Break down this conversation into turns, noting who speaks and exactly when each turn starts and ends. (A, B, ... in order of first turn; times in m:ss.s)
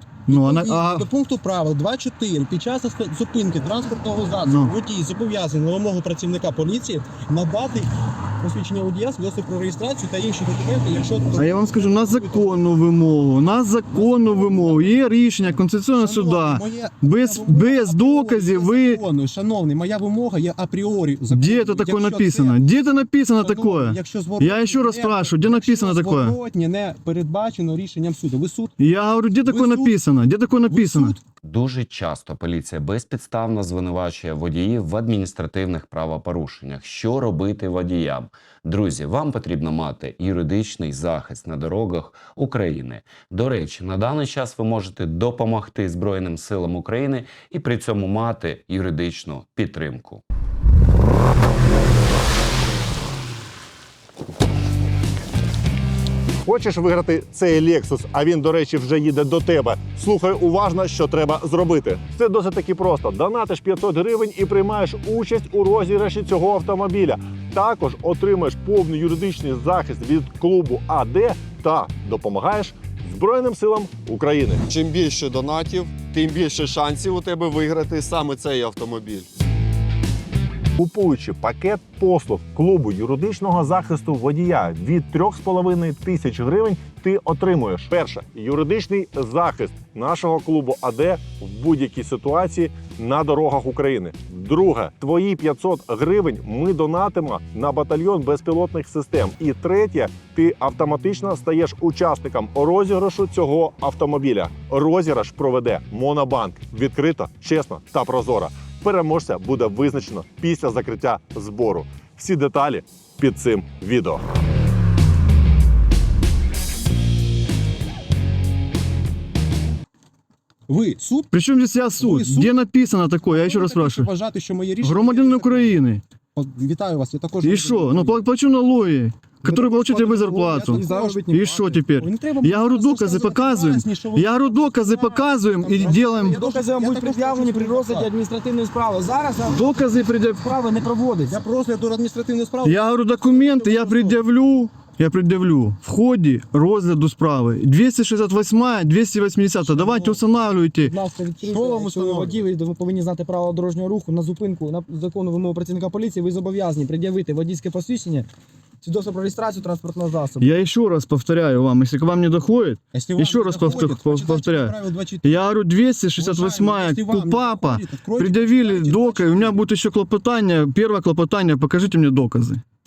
0:00.3-0:01.1 A
0:00.3-0:12.6 B
0:04.5-0:04.7 A
0:11.4-0:19.0 A
0:14.0-0:15.0 B
0:15.5-0:22.6 B
0:21.3-0:26.4 A
0:23.4-0:28.7 B
0:28.8-0:31.2 A
0:29.5-0:29.9 B
0:30.7-0:31.2 B
0:31.4-0:50.2 C
0:56.4-1:14.8 D
1:14.7-1:19.2 E
1:20.8-1:54.2 D
2:00.7-2:01.3 B
2:01.3-2:04.1 A
2:02.0-2:02.5 B
2:03.3-2:05.8 B
2:04.8-2:06.0 A
2:06.3-2:08.2 B
2:07.4-2:16.4 A
2:09.4-2:11.8 F
2:10.3-2:11.3 B
2:12.0-2:18.1 B
2:16.2-2:19.8 F
2:19.5-2:20.5 A
2:20.4-2:21.4 F
2:21.3-2:24.2 B
2:22.6-2:30.9 A
2:29.6-2:30.2 B
2:30.8-2:38.3 F
2:31.4-2:32.4 B
2:38.8-2:40.5 F
2:40.4-2:52.6 A
2:42.9-2:45.4 B
2:46.2-2:49.6 B